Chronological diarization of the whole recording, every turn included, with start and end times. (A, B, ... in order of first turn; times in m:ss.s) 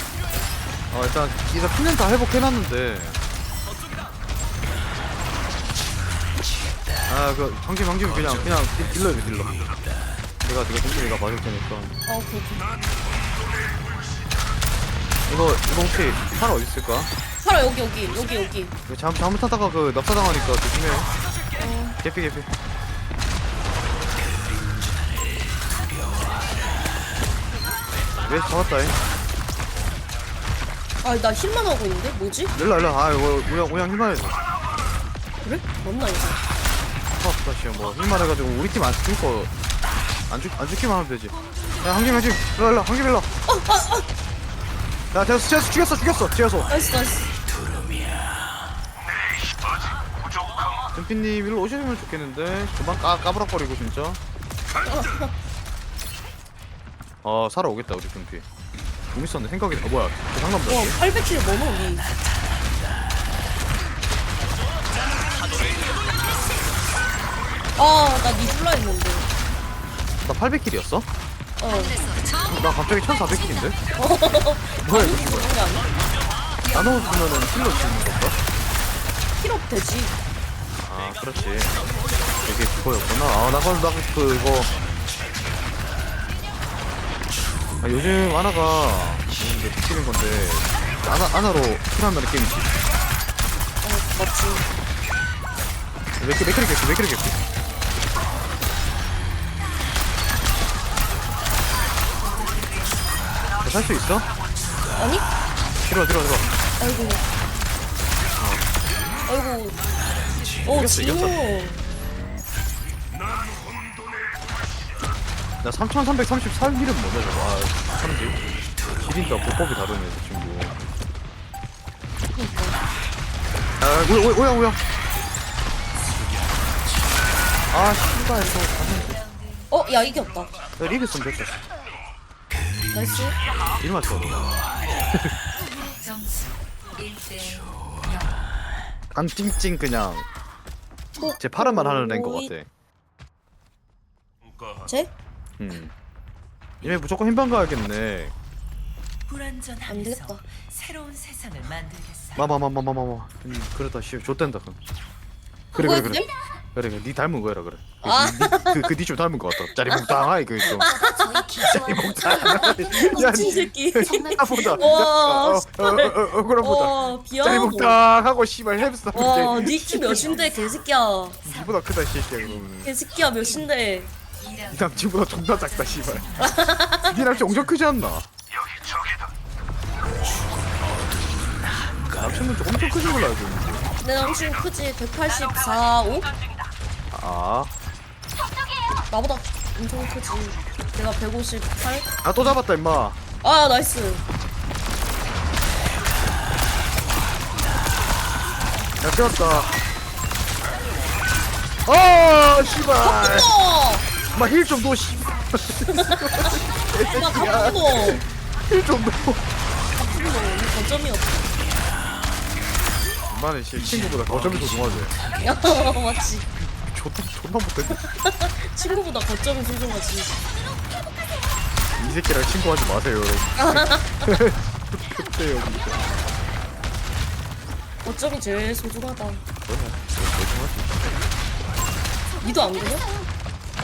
0:00.9-0:03.2 A
0:07.1-0:09.7 A
0:10.4-0:11.9 A
0:12.0-0:12.7 B
0:15.3-0:17.1 A
0:17.4-0:18.7 B
0:18.9-0:21.1 A
0:21.5-0:22.0 B
0:22.0-0:22.5 A
0:28.2-0:29.0 A
0:31.0-0:32.5 B
0:32.5-0:34.4 A
0:35.4-0:36.4 B
0:37.2-0:39.5 A
0:40.3-0:43.3 A
0:43.5-0:44.0 B
0:45.1-0:46.7 A
0:46.7-0:47.3 B
0:50.9-0:54.2 A
0:54.8-0:55.3 B
0:57.2-0:58.4 A
0:59.1-1:01.0 A
1:00.7-1:02.0 B
1:05.4-1:06.0 C
1:07.8-1:09.3 B
1:10.2-1:11.1 A
1:11.6-1:12.0 B
1:11.8-1:12.5 C
1:12.5-1:13.8 A
1:13.9-1:15.9 B
1:14.8-1:15.5 A
1:16.6-1:17.0 C
1:16.7-1:18.4 A
1:19.4-1:20.2 B
1:20.8-1:21.8 A
1:22.4-1:24.7 A
1:27.8-1:32.7 A
1:33.8-1:34.7 B
1:36.2-1:37.4 A
1:42.2-1:43.0 C
1:43.6-1:44.3 A
1:44.9-1:45.3 B
1:45.8-1:46.5 A
1:46.8-1:47.2 B
1:48.4-1:48.7 A
1:49.3-1:49.8 B
1:50.6-1:51.3 A
1:50.6-1:51.8 B
1:55.6-1:58.4 A
1:59.0-2:00.8 A
2:02.3-2:02.8 B
2:03.8-2:04.8 A
2:07.7-2:09.2 A
2:09.0-2:09.7 C
2:09.7-2:10.5 B
2:10.8-2:11.6 A
2:12.9-2:13.4 B
2:13.8-2:14.5 A
2:15.7-2:18.4 C
2:19.1-2:20.2 A
2:21.2-2:22.5 B
2:21.4-2:22.7 A
2:24.8-2:25.1 B
2:25.6-2:25.9 A
2:26.8-2:28.3 A
2:29.3-2:32.5 C
2:29.9-2:30.4 B
2:32.4-2:34.8 A
2:35.7-2:40.9 A
2:35.8-2:36.3 B
2:38.0-2:38.8 B
2:39.8-2:41.4 B
2:40.8-2:44.9 C
2:41.6-2:50.3 A
2:42.0-2:48.0 B
2:49.1-2:51.4 B
2:50.1-2:50.8 C
2:51.4-2:52.9 A
2:51.5-2:51.7 C
2:52.8-2:54.1 B
2:54.4-2:57.7 C
2:54.7-2:56.3 A
2:56.4-2:57.2 B
2:57.0-2:58.3 A
3:02.2-3:03.9 A
3:04.0-3:06.3 B
3:07.1-3:07.7 A
3:09.1-3:12.1 B
3:12.2-3:13.2 A
3:13.4-3:14.2 B
3:19.0-3:19.7 A
3:21.8-3:23.5 A
3:23.0-3:24.0 B
3:24.3-3:29.4 A
3:25.9-3:28.2 B
3:30.0-3:31.5 B
3:33.3-3:35.2 A
3:35.4-3:36.5 B
3:36.8-3:38.1 A
3:38.0-3:40.4 B
3:42.0-3:46.0 A
3:43.6-3:44.3 B
3:48.0-3:49.4 B
3:49.7-3:51.2 A
3:52.4-3:53.1 B